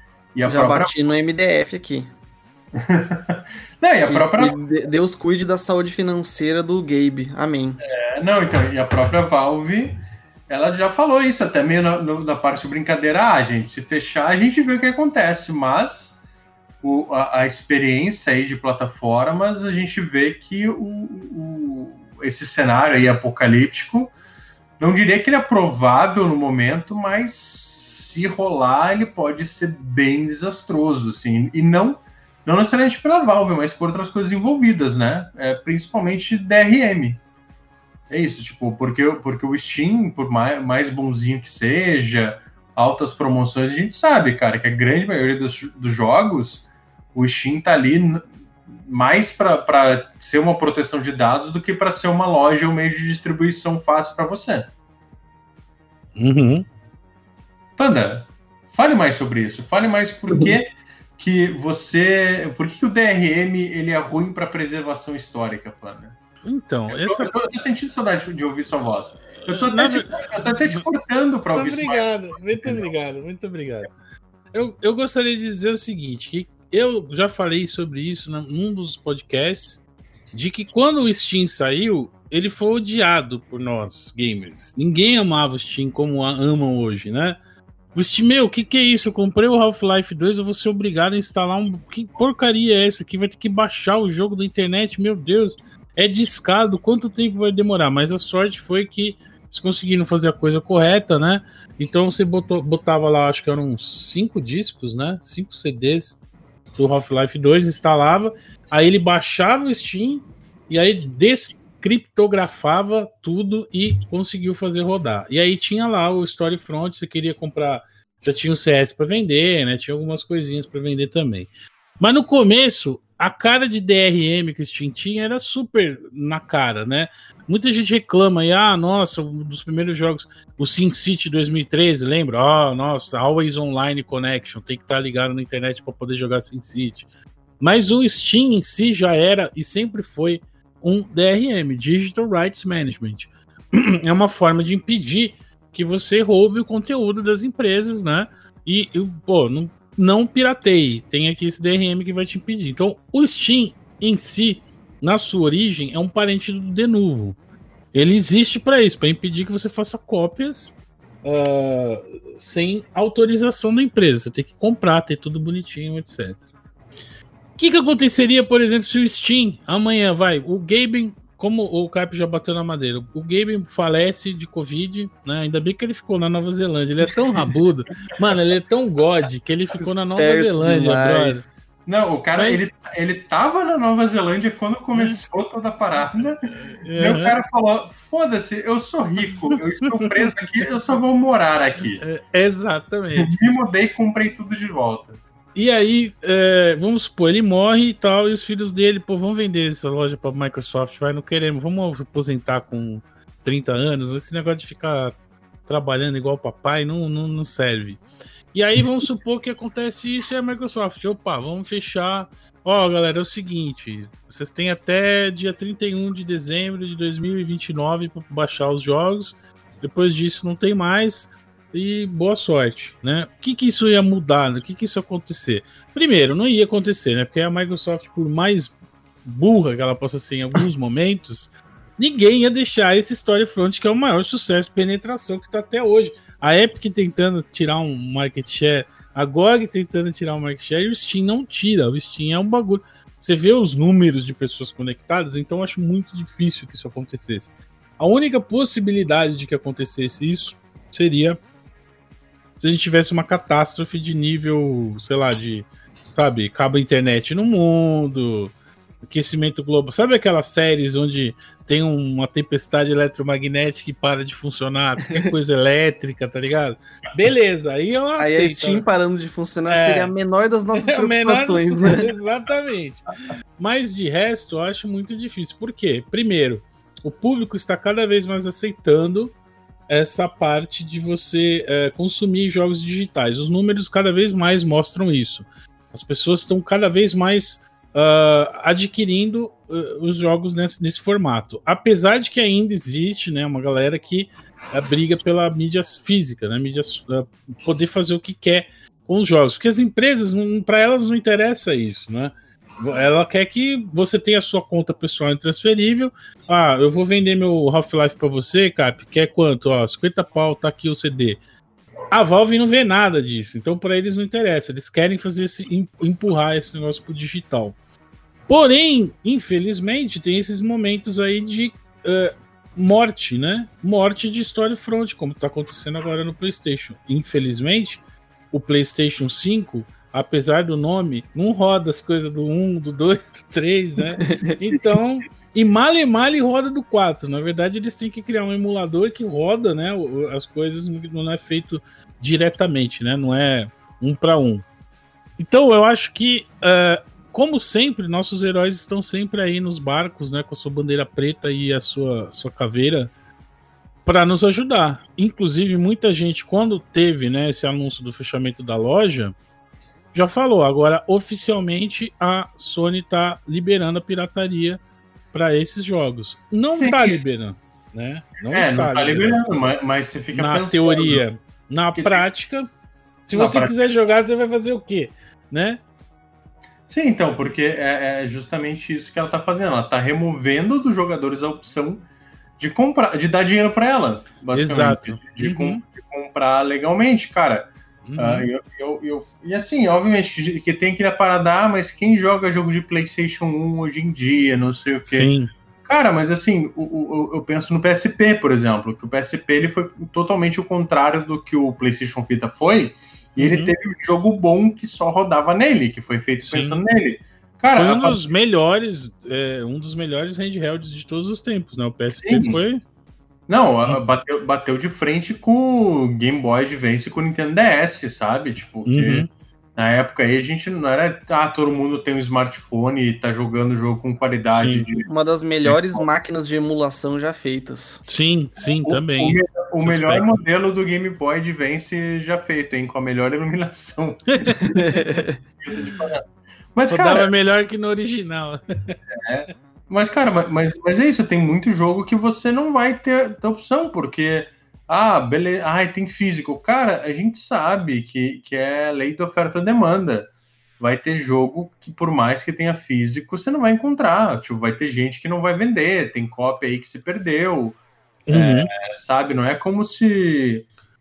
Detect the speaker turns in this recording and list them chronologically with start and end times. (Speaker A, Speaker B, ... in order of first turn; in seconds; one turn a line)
Speaker A: 0.3-0.9
Speaker B: 0.5-2.1
Speaker A: 2.8-4.6
Speaker B: 4.0-7.8
Speaker A: 7.8-16.2
Speaker A: 16.8-24.1
Speaker A: 24.8-37.2
Speaker A: 38.1-54.7
Speaker C: 56.2-56.7
Speaker A: 57.8-66.2
Speaker C: 66.4-67.3
Speaker A: 66.9-72.9
Speaker C: 69.4-70.1
Speaker C: 71.5-73.9
Speaker C: 74.5-87.4
Speaker C: 88.0-106.2
Speaker C: 106.8-137.1
Speaker C: 137.6-157.4
Speaker C: 157.9-166.5
Speaker C: 167.6-181.4
Speaker B: 179.8-181.5
Speaker A: 181.9-192.0
Speaker C: 182.4-182.6
Speaker C: 184.9-185.2
Speaker C: 186.5-187.3
Speaker C: 192.0-193.3
Speaker A: 193.2-195.2
Speaker C: 195.6-208.0
Speaker C: 208.5-251.4
Speaker C: 252.6-268.9
Speaker B: 268.2-272.0
Speaker C: 269.7-270.1
Speaker C: 270.7-273.1
Speaker C: 273.6-279.4
Speaker C: 279.9-311.4
Speaker C: 312.1-317.8
Speaker C: 318.5-344.7
Speaker B: 334.3-334.5
Speaker C: 345.4-353.1
Speaker C: 354.1-359.4
Speaker C: 360.1-364.8
Speaker C: 365.3-369.4
Speaker A: 366.7-367.2
Speaker A: 368.5-371.2
Speaker C: 370.3-372.7
Speaker A: 371.9-372.2
Speaker C: 373.3-375.8
Speaker A: 373.3-373.8
Speaker A: 376.9-382.0
Speaker A: 382.6-395.3
Speaker C: 384.5-385.8
Speaker C: 388.1-388.5
Speaker C: 395.1-395.5
Speaker A: 395.9-408.2
Speaker C: 403.4-403.7
Speaker C: 406.5-406.8
Speaker C: 407.8-412.8
Speaker A: 412.2-412.6
Speaker A: 413.5-425.1
Speaker C: 418.9-419.3
Speaker C: 424.6-424.9
Speaker B: 425.1-428.0
Speaker A: 425.6-426.0
Speaker C: 428.1-430.3
Speaker A: 428.8-434.8
Speaker B: 434.6-435.4
Speaker A: 435.6-436.2
Speaker C: 435.8-436.0
Speaker A: 436.8-437.3
Speaker C: 436.9-439.0
Speaker A: 439.1-460.7
Speaker C: 458.3-458.7